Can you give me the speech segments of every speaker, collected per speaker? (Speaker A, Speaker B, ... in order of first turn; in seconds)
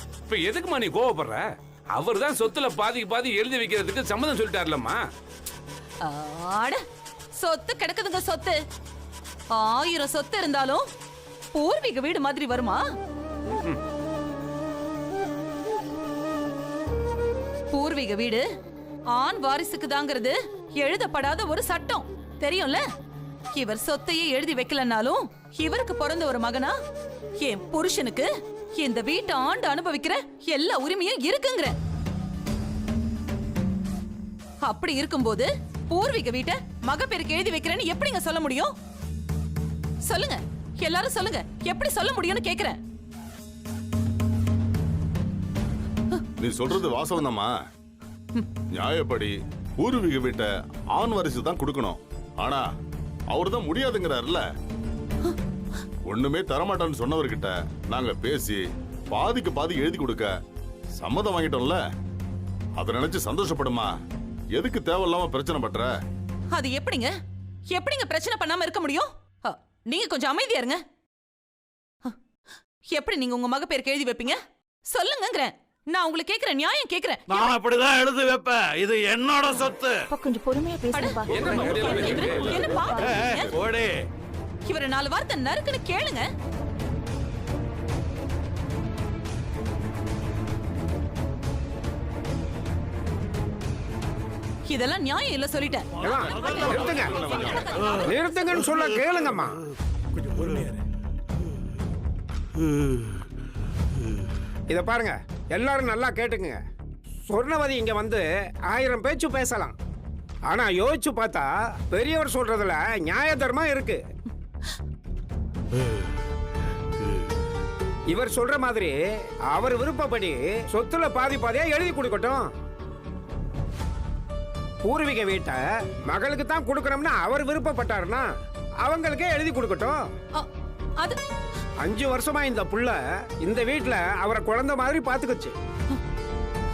Speaker A: 0.3-5.0, 13.5-13.8, 81.3-82.6
Speaker B: 6.0-6.8, 7.3-8.6, 9.5-10.8, 11.5-12.8, 17.7-18.4, 19.1-22.8, 23.5-26.8, 27.4-31.8, 34.6-38.7, 40.0-42.8, 66.5-67.1, 67.7-70.8, 72.9-77.5, 80.9-83.5, 84.7-86.3, 94.7-98.7
Speaker C: 46.4-47.5, 48.7-52.7, 53.3-54.4, 56.1-60.3, 61.0-61.8, 62.8-63.9, 64.5-65.9, 96.9-97.7
Speaker D: 77.3-80.1, 83.0-84.0, 100.3-100.7
Speaker E: 80.1-82.1, 82.7-83.2
Speaker F: 96.0-97.2, 98.0-99.6, 104.7-106.6, 107.3-109.7, 110.5-114.0, 118.1-119.0, 119.5-122.5, 124.8-128.3, 128.8-130.0, 131.8-135.5